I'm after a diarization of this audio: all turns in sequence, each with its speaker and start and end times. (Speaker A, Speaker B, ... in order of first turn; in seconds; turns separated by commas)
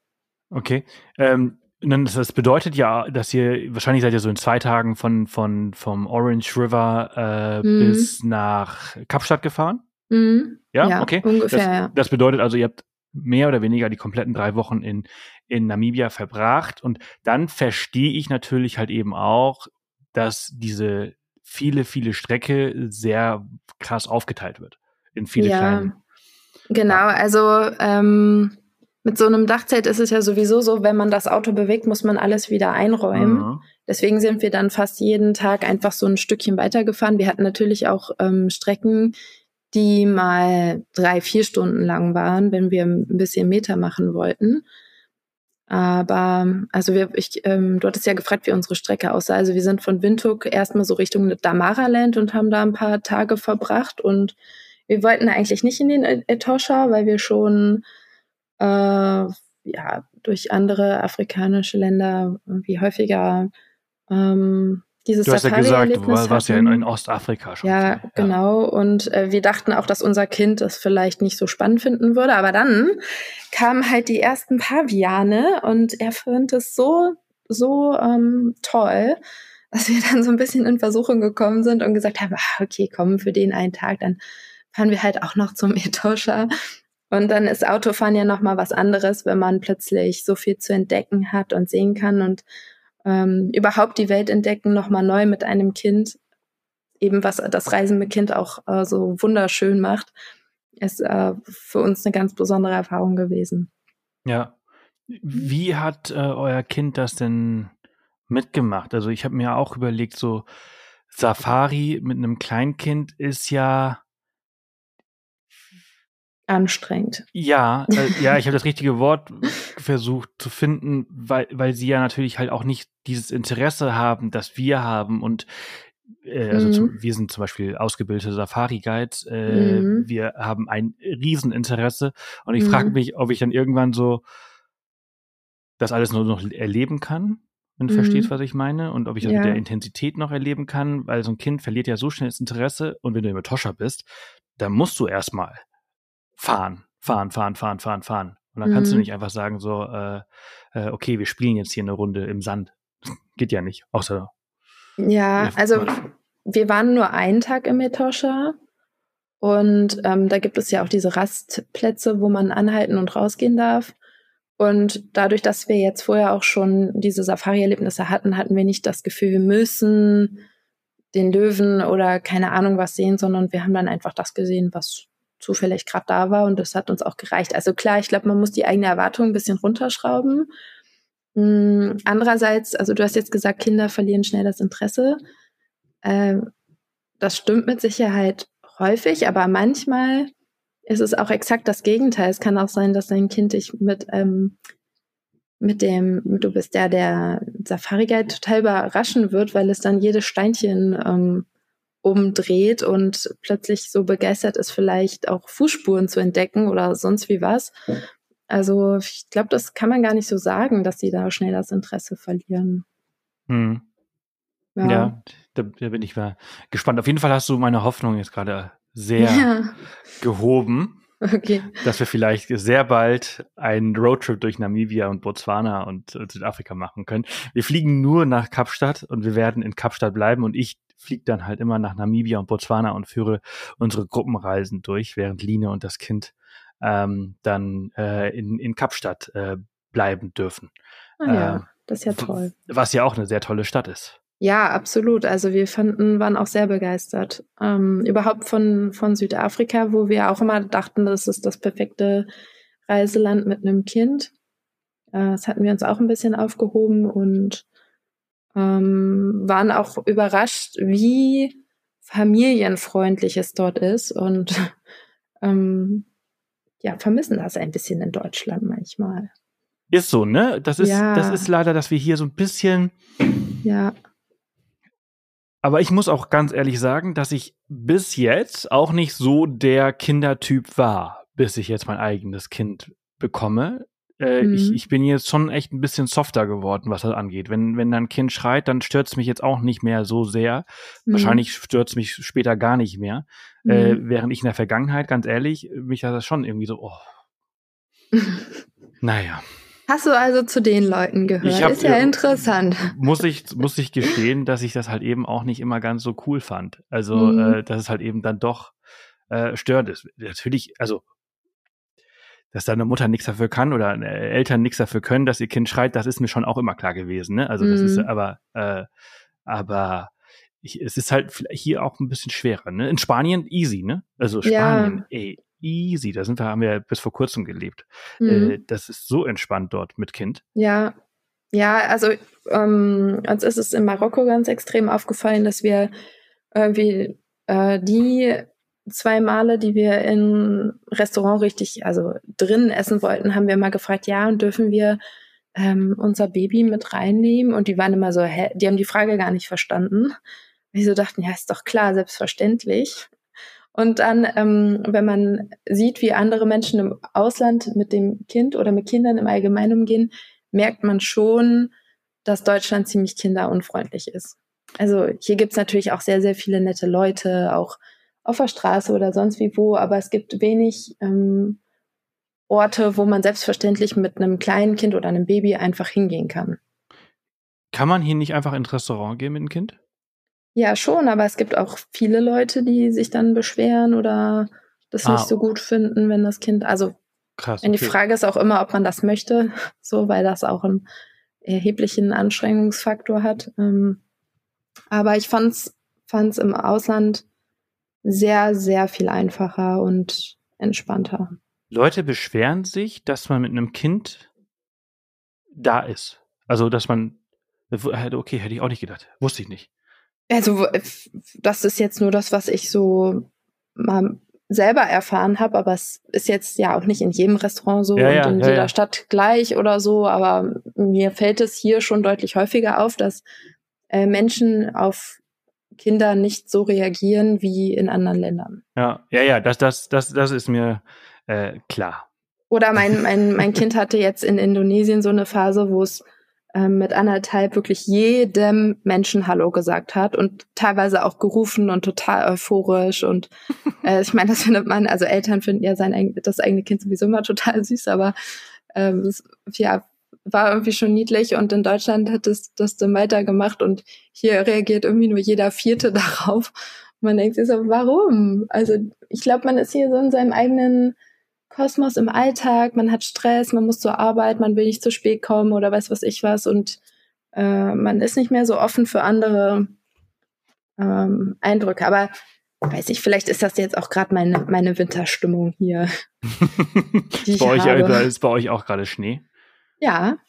Speaker A: 0.5-9.8, Speaker B: 7.6-8.1, Speaker B: 10.1-11.9, Speaker A: 10.7-25.9, Speaker B: 25.4-26.0, Speaker B: 26.7-39.1, Speaker A: 33.1-33.6, Speaker B: 39.7-44.6, Speaker B: 45.7-54.4, Speaker B: 54.9-57.8, Speaker B: 58.6-63.5, Speaker B: 64.1-66.9, Speaker A: 65.2-68.3, Speaker B: 67.6-79.2, Speaker B: 79.7-84.2, Speaker B: 84.7-86.5, Speaker B: 87.1-92.5, Speaker B: 93.0-96.2, Speaker B: 97.0-100.1, Speaker B: 100.8-103.7, Speaker A: 104.3-104.5, Speaker A: 105.1-107.7, Speaker A: 108.3-110.5, Speaker A: 111.1-114.0, Speaker B: 116.5-117.2, Speaker A: 117.3-134.2, Speaker B: 126.5-126.9, Speaker B: 129.5-130.1, Speaker B: 132.6-132.9, Speaker A: 135.8-145.6, Speaker B: 137.9-138.3, Speaker B: 139.2-139.6, Speaker A: 146.4-154.3, Speaker B: 148.7-149.1, Speaker B: 155.0-158.6, Speaker A: 155.4-156.0, Speaker B: 159.4-163.9, Speaker B: 164.6-170.4, Speaker B: 171.1-180.5, Speaker B: 181.4-185.2, Speaker B: 186.0-186.5, Speaker B: 187.2-190.3, Speaker B: 190.9-194.6, Speaker B: 195.6-201.5, Speaker B: 202.0-207.7, Speaker B: 208.5-212.8, Speaker A: 213.5-213.8, Speaker B: 214.8-215.2, Speaker A: 214.8-219.5, Speaker B: 219.2-219.8, Speaker A: 220.2-221.0, Speaker B: 221.2-221.8, Speaker A: 221.8-240.7, Speaker B: 241.2-242.5, Speaker A: 241.3-244.2, Speaker B: 244.4-252.3, Speaker B: 252.9-254.3, Speaker B: 255.1-257.6, Speaker B: 258.6-264.7, Speaker B: 265.4-266.1, Speaker B: 266.8-269.3, Speaker A: 269.9-272.9, Speaker B: 270.8-271.5, Speaker B: 273.6-273.9, Speaker A: 275.6-297.1, Speaker B: 284.4-284.8, Speaker B: 291.1-291.4, Speaker B: 293.7-294.0, Speaker B: 298.1-298.5, Speaker A: 299.0-299.4, Speaker B: 299.9-302.9, Speaker A: 301.4-308.7, Speaker B: 307.1-307.6, Speaker A: 309.3-311.0, Speaker A: 312.5-318.9, Speaker B: 317.6-318.1, Speaker A: 319.5-320.1, Speaker A: 320.6-330.4, Speaker B: 324.4-325.0, Speaker B: 328.2-328.6, Speaker B: 330.6-331.0, Speaker B: 331.5-335.9, Speaker B: 336.5-345.0, Speaker B: 345.6-350.1, Speaker B: 350.7-353.1, Speaker B: 353.8-361.7, Speaker B: 362.2-371.6, Speaker B: 372.5-376.6, Speaker A: 377.7-379.8, Speaker B: 380.6-387.0, Speaker A: 385.1-385.3, Speaker A: 387.4-388.0, Speaker B: 387.6-390.9, Speaker B: 391.4-394.0, Speaker B: 394.9-397.2, Speaker B: 398.1-401.4, Speaker A: 401.7-404.3, Speaker A: 405.6-407.2, Speaker A: 407.7-409.7, Speaker B: 410.3-423.2, Speaker A: 418.0-418.7, Speaker B: 423.9-425.2, Speaker B: 425.8-428.6, Speaker A: 428.8-432.1, Speaker B: 432.5-443.3, Speaker A: 432.9-433.6, Speaker B: 443.8-448.1, Speaker B: 448.8-461.0, Speaker B: 461.5-466.8, Speaker B: 467.3-469.8, Speaker B: 470.8-472.1, Speaker B: 472.7-475.9, Speaker A: 476.4-479.2, Speaker B: 477.2-478.1, Speaker B: 479.8-480.2